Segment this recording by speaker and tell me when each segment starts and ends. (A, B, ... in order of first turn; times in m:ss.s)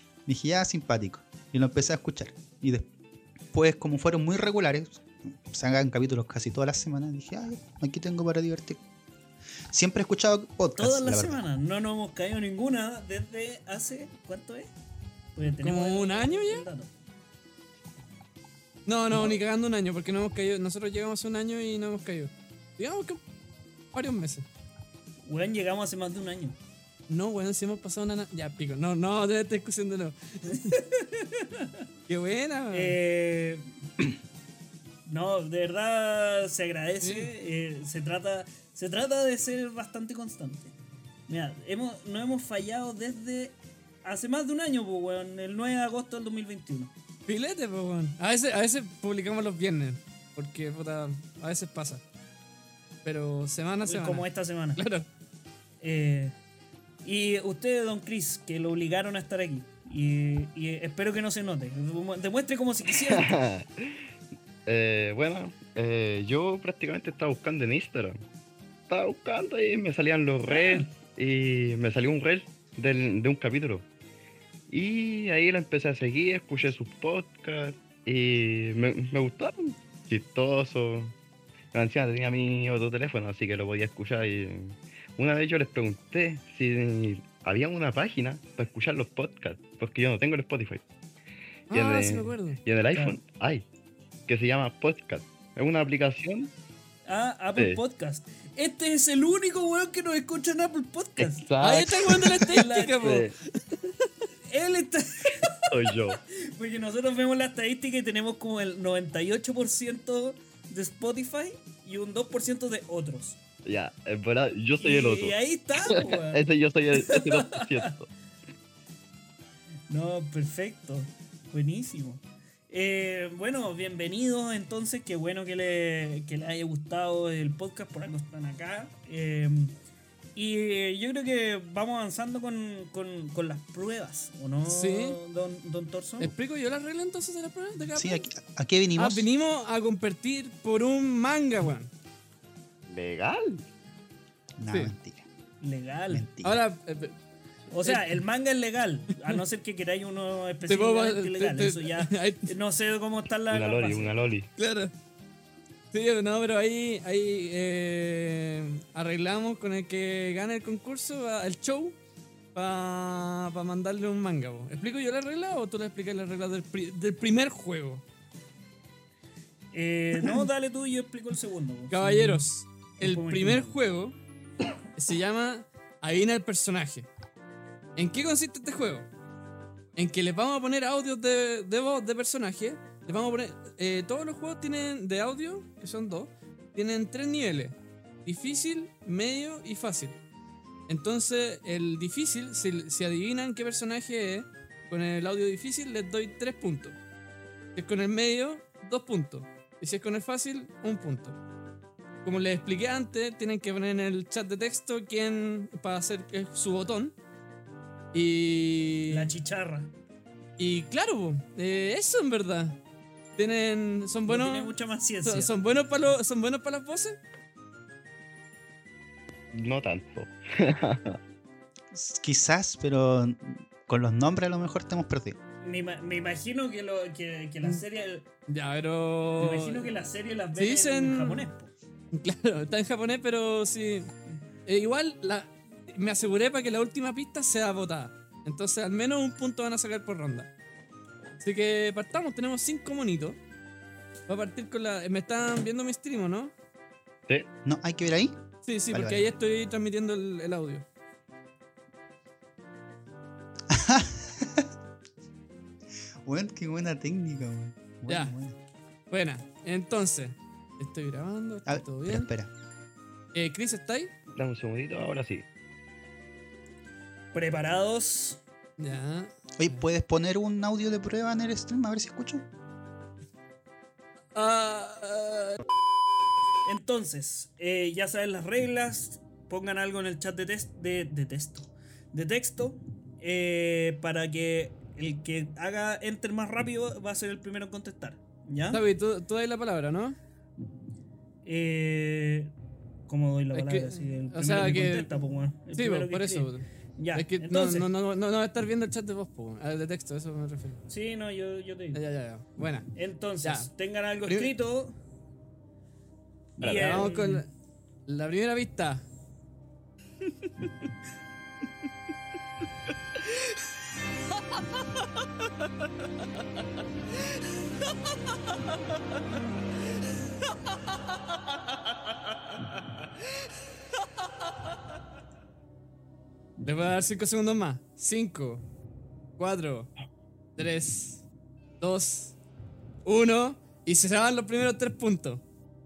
0:00.3-0:02.9 A
0:03.5-0:08.8 A
0:09.7-0:11.4 A
0:10.8-0:14.7 B
0:15.3-0:16.9 B
0:15.5-0:16.6 C
0:18.9-0:23.2 C
0:19.1-0:19.4 B
0:23.9-0:24.4 C
0:25.2-0:26.6 B
0:27.1-0:30.7 C
0:30.5-0:31.8 B
0:32.1-0:33.0 C
0:32.7-0:33.7 B
0:35.0-0:40.7 B
0:37.0-0:37.3 C
0:41.3-0:46.9 B
0:47.3-0:52.0 C
0:53.0-0:55.0 C
0:53.8-0:54.8 B
0:55.8-0:56.3 B
0:57.0-1:03.4 B
1:03.0-1:04.0 D
1:04.6-1:08.2 D
1:08.9-1:13.8 D
1:10.5-1:10.9 B
1:14.7-1:21.1 D
1:21.7-1:30.8 D
1:31.7-1:32.6 C
1:31.7-1:33.6 D
1:32.9-1:33.2 B
1:34.3-1:36.5 D
1:37.0-1:41.5 B
1:37.6-1:37.8 D
1:41.2-1:42.2 D
1:41.6-1:43.3 C
1:42.2-1:43.0 B
1:43.0-1:43.3 D
1:44.5-1:53.4 B
1:45.7-1:46.2 D
1:53.6-1:58.1 D
1:54.8-1:57.9 B
1:59.9-2:09.7 B
2:10.3-2:16.3 B
2:14.6-2:15.2 C
2:16.2-2:18.3 C
2:18.0-2:19.3 A
2:19.0-2:21.9 C
2:22.9-2:23.6 D
2:24.6-2:25.3 A
2:25.6-2:26.2 B
2:26.1-2:26.6 A
2:26.4-2:27.2 C
2:27.7-2:34.2 B
2:27.8-2:28.2 C
2:30.7-2:32.5 C
2:33.5-2:34.5 D
2:34.6-2:34.9 C
2:35.9-2:42.0 C
2:42.5-2:48.0 C
2:49.7-2:52.4 B
2:51.9-2:54.1 C
2:53.0-2:53.7 B
2:55.0-2:57.1 C
2:58.0-2:59.1 C
2:59.9-3:10.2 C
3:10.9-3:17.0 C
3:17.7-3:21.4 C
3:22.2-3:27.1 C
3:28.1-3:29.3 C
3:29.1-3:29.9 B
3:30.6-3:32.8 C
3:33.4-3:34.7 C
3:34.3-3:35.6 B
3:35.2-3:37.2 C
3:39.5-3:41.2 D
3:41.9-3:45.4 A
3:45.6-3:48.3 B
3:48.5-3:49.9 C
3:49.4-3:51.7 B
3:50.6-3:51.5 C
3:52.1-3:54.1 C
3:54.6-4:00.5 C
4:01.4-4:03.4 C
4:04.3-4:06.5 C
4:07.6-4:08.4 A
4:08.6-4:10.8 C
4:08.9-4:09.3 A
4:13.7-4:14.7 A
4:16.2-4:18.6 A
4:18.1-4:18.3 C
4:19.1-4:22.3 C
4:21.6-4:22.5 A
4:23.3-4:24.1 C
4:24.3-4:25.4 D
4:27.3-4:28.4 B
4:28.8-4:29.8 C
4:29.6-4:32.4 A
4:34.3-4:35.6 C
4:36.6-4:48.8 B
4:48.7-4:50.2 C
4:51.4-4:52.5 B
4:53.1-4:57.9 B
4:53.5-4:55.1 C
4:55.7-5:00.8 C
5:00.9-5:02.0 B
5:01.9-5:02.9 C
5:02.9-5:05.0 B
5:03.4-5:03.7 C
5:06.6-5:07.4 B
5:06.6-5:07.0 D
5:06.6-5:07.5 C
5:08.1-5:09.0 C
5:26.6-5:28.6 C
5:29.4-5:29.9 C
5:30.6-5:31.2 C
5:31.8-5:32.4 C
5:33.0-5:35.4 C